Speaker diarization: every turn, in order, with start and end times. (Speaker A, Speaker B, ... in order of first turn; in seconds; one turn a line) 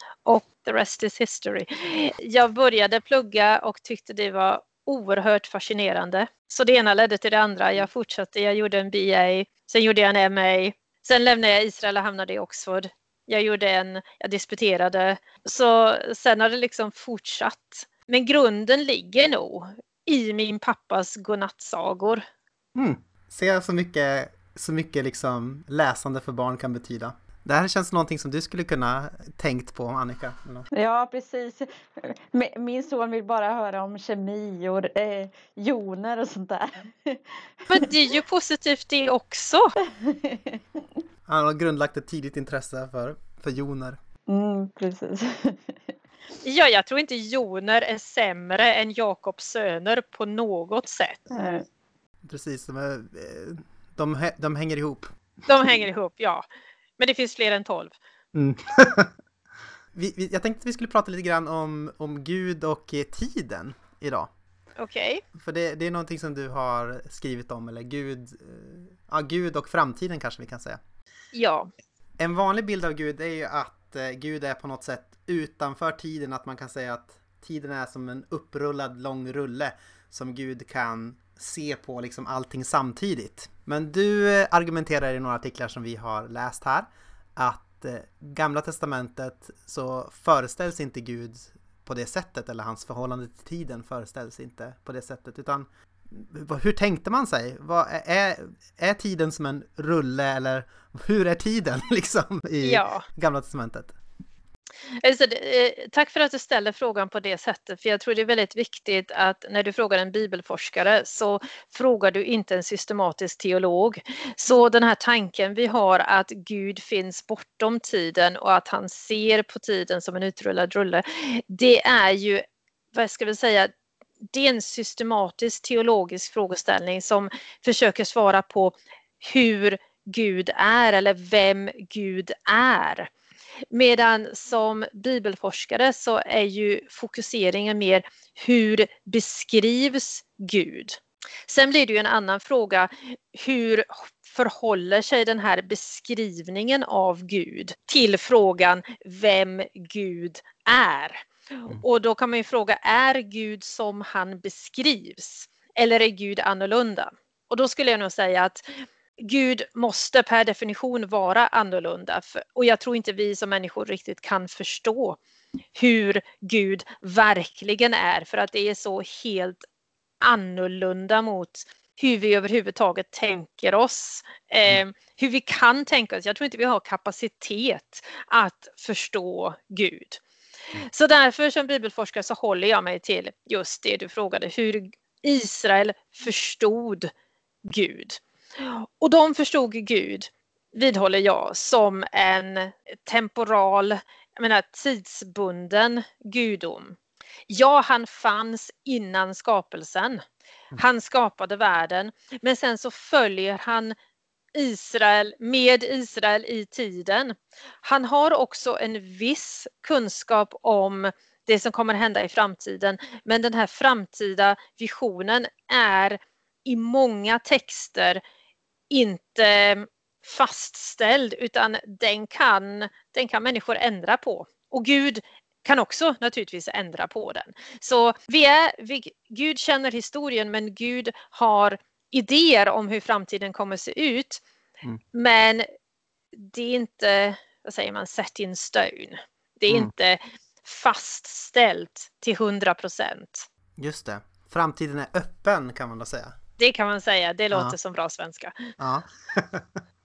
Speaker A: 0.2-22.2
Speaker B: 22.7-30.7
Speaker C: 30.7-37.9
Speaker A: 37.7-39.7
Speaker C: 40.0-40.6
Speaker B: 41.3-44.0
Speaker C: 44.3-45.9
Speaker A: 46.4-51.2
Speaker C: 51.3-51.6
Speaker B: 52.2-55.1
Speaker A: 55.5-56.4
Speaker A: 57.0-57.9
Speaker B: 58.3-59.1
Speaker B: 59.9-64.3
Speaker A: 64.8-65.2
Speaker B: 65.3-70.8
Speaker A: 71.3-71.7
Speaker B: 72.2-104.0
Speaker A: 102.6-103.0
Speaker A: 105.0-123.7
Speaker A: 124.3-133.1
Speaker A: 133.7-158.6
Speaker A: 159.2-165.2
Speaker A: 165.7-169.6
Speaker A: 170.2-180.2
Speaker A: 180.7-187.1
Speaker A: 187.6-197.0
Speaker A: 197.5-200.2
Speaker A: 200.8-203.9
Speaker A: 204.5-218.2
Speaker A: 218.9-234.4
Speaker A: 235.1-235.6
Speaker A: 236.3-243.5
Speaker B: 243.8-246.3
Speaker A: 246.6-248.7
Speaker B: 248.8-249.8